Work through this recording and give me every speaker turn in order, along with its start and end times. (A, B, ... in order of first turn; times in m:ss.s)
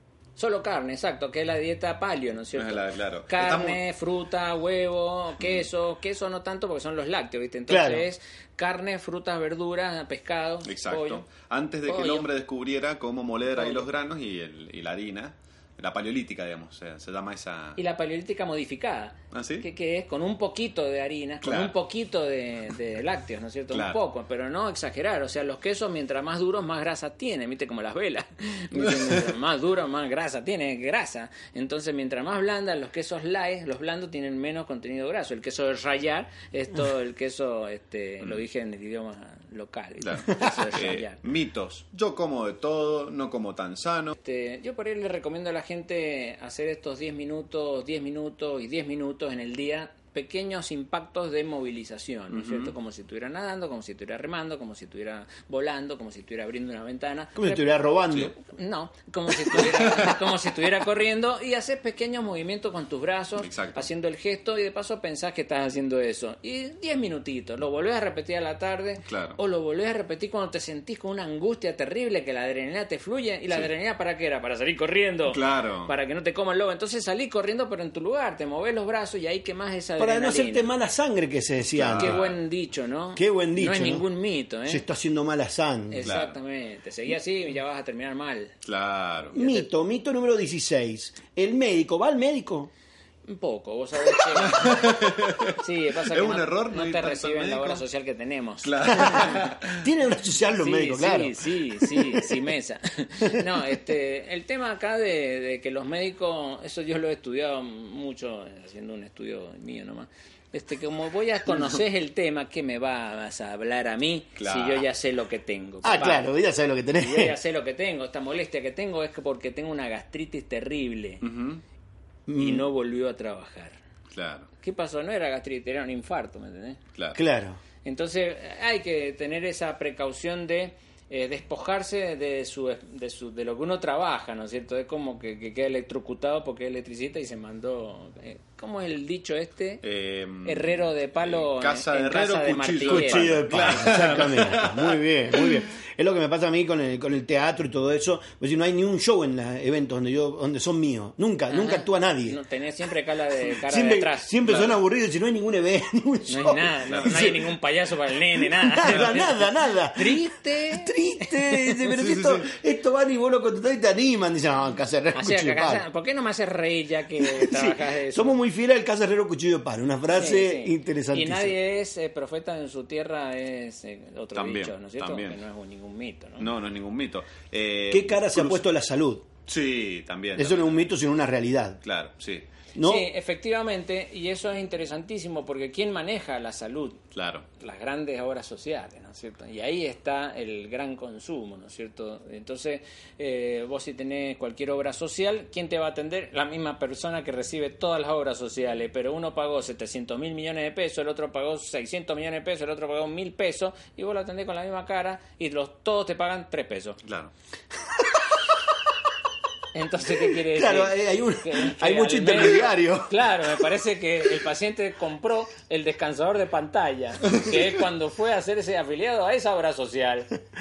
0:00.4-0:11.3 A
0:02.6-0:03.8 B
0:07.7-0:08.1 C
0:10.6-0:17.8 B
0:11.8-0:12.3 A
0:13.6-0:13.8 A
0:17.8-0:41.2 A
0:19.3-0:19.7 B
0:21.4-0:21.8 B
0:23.7-0:24.0 B
0:40.0-0:44.1 B
0:44.2-0:57.7 A
0:52.3-0:52.7 B
0:57.4-0:58.3 C
0:58.2-1:20.7 A
0:59.5-1:00.2 B
1:03.4-1:03.9 B
1:09.0-1:09.4 B
1:15.3-1:15.9 B
1:20.0-1:22.2 C
1:21.7-1:22.4 B
1:22.0-1:24.8 A
1:23.2-1:24.1 C
1:24.6-1:26.1 C
1:25.9-1:28.5 A
1:26.0-1:26.4 B
1:28.6-1:29.4 B
1:29.3-1:32.7 C
1:29.3-1:29.7 A
1:33.2-1:35.0 A
1:34.3-1:37.9 B
1:35.6-1:39.4 A
1:38.6-1:39.8 B
1:39.8-1:42.3 C
1:40.6-1:56.3 A
1:54.4-1:54.8 B
1:55.8-1:57.4 C
1:57.0-2:01.2 A
2:01.2-2:01.6 B
2:02.3-2:02.7 C
2:02.4-2:03.8 A
2:04.1-2:04.5 B
2:04.6-2:06.8 A
2:07.1-2:07.6 C
2:07.8-2:19.8 A
2:19.8-2:25.6 B
2:20.4-2:23.5 A
2:22.8-2:32.4 C
2:31.5-2:34.4 A
2:33.5-2:37.5 C
2:34.4-2:34.8 B
2:36.3-2:41.8 A
2:36.9-2:37.3 B
2:38.4-2:45.8 C
2:41.9-2:42.5 B
2:45.1-2:48.4 A
2:47.2-2:51.6 C
2:50.1-2:56.5 A
2:54.3-2:55.4 B
2:56.4-2:58.6 B
2:57.9-2:59.3 C
2:59.5-3:00.9 B
3:00.4-3:01.8 C
3:01.8-3:02.5 B
3:02.8-3:03.1 C
3:02.8-3:07.0 A
3:07.2-3:07.4 B
3:07.6-3:27.0 A
3:27.0-3:27.3 B
3:29.7-3:40.3 A
3:30.4-3:33.2 C